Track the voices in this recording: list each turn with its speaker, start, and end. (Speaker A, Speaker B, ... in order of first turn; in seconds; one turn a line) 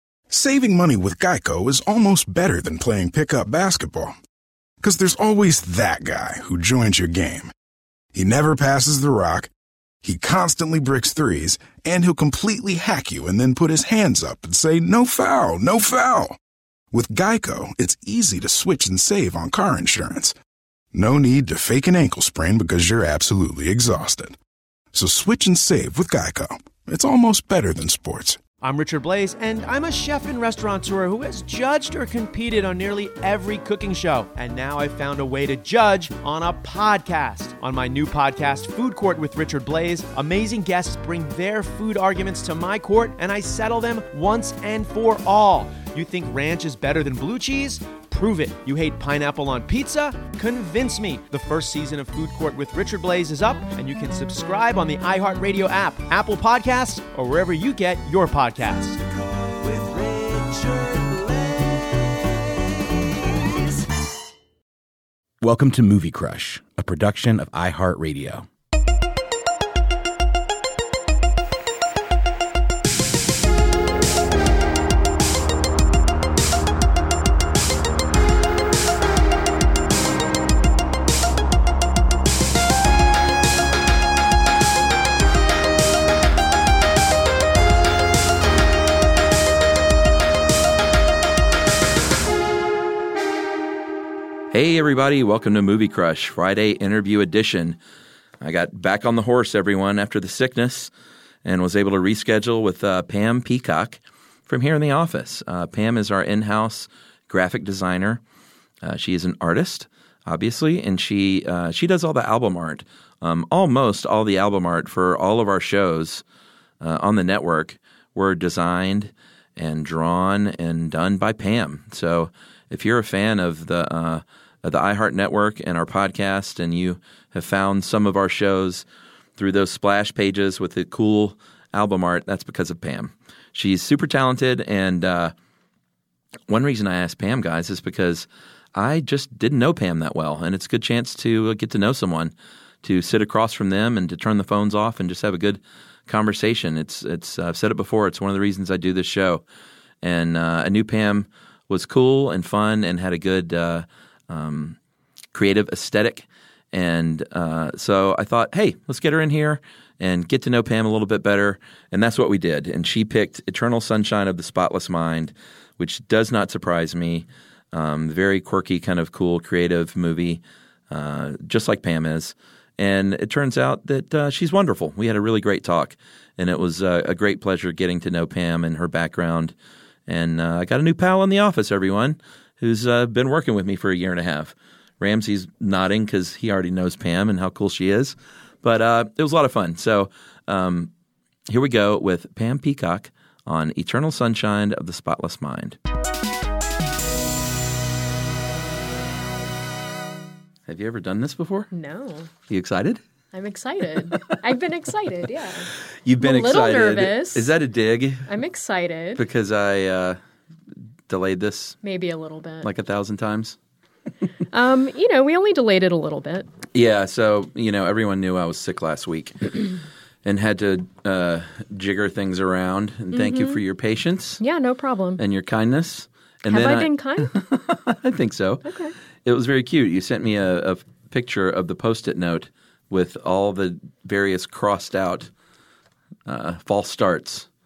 Speaker A: 0.3-4.2
Speaker A: 4.8-7.5
Speaker A: 8.1-9.5
Speaker A: 10.0-16.4
Speaker A: 16.9-20.4
Speaker A: 20.9-24.4
Speaker A: 24.9-28.4
Speaker B: 28.6-62.2
Speaker B: 63.0-64.0
Speaker C: 65.4-68.5
Speaker D: 94.5-97.8
Speaker D: 98.4-100.9
Speaker D: 101.5-108.2
Speaker D: 108.8-116.2
Speaker D: 116.8-128.8
Speaker D: 129.4-135.3
Speaker D: 136.5-149.4
Speaker D: 150.0-154.8
Speaker D: 155.3-179.5
Speaker D: 180.1-190.9
Speaker D: 191.5-195.8
Speaker D: 200.7-201.7
Speaker E: 201.7-202.3
Speaker D: 202.5-203.0
Speaker E: 203.3-207.6
Speaker D: 206.1-208.3
Speaker E: 208.3-209.2
Speaker D: 209.2-210.2
Speaker D: 211.1-211.8
Speaker E: 211.8-212.7
Speaker D: 212.6-213.6
Speaker E: 214.5-216.5
Speaker D: 216.7-224.4
Speaker E: 223.1-223.6
Speaker E: 224.4-225.2
Speaker D: 225.2-228.7
Speaker E: 226.4-227.3
Speaker E: 228.6-228.9
Speaker D: 229.2-235.3
Speaker D: 236.3-237.5